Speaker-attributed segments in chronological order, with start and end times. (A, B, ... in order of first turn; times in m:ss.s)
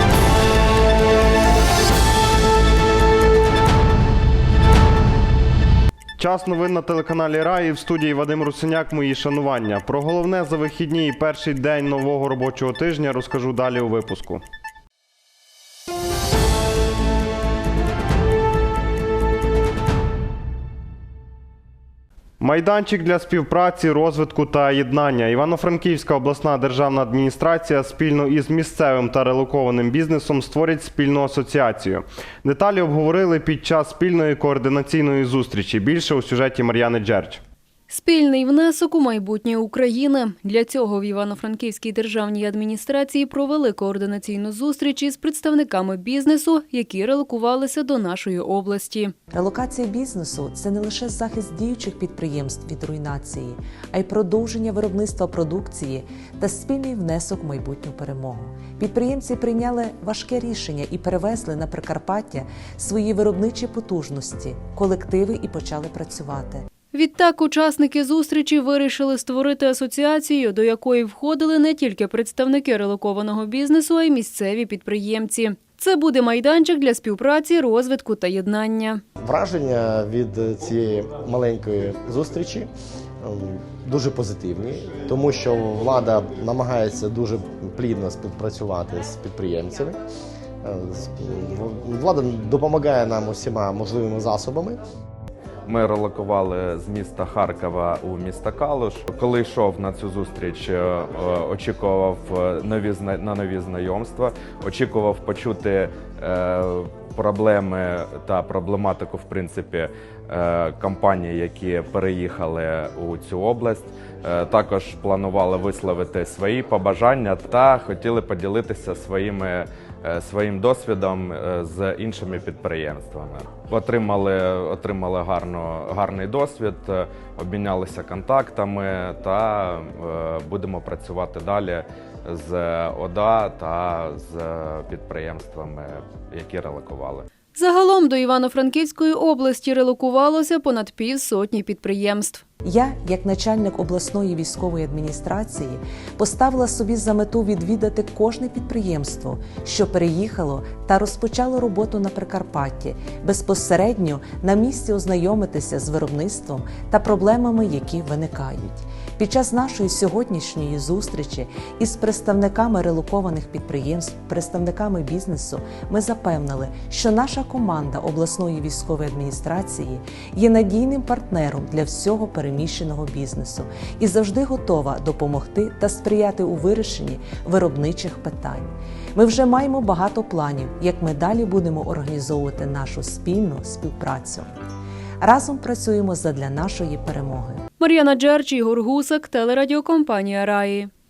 0:06.2-0:14.4 A
0:22.4-0:37.4 A
0:37.9-0:49.1 B
0:49.3-1:06.7 C
1:06.9-1:19.0 B
1:19.2-1:22.7 D
1:23.2-1:30.0 D
1:30.6-1:34.8 D
1:35.7-2:17.3 E
2:17.5-2:22.4 B
2:22.6-3:04.6 C
3:05.2-3:07.6 C
3:07.8-3:10.9 B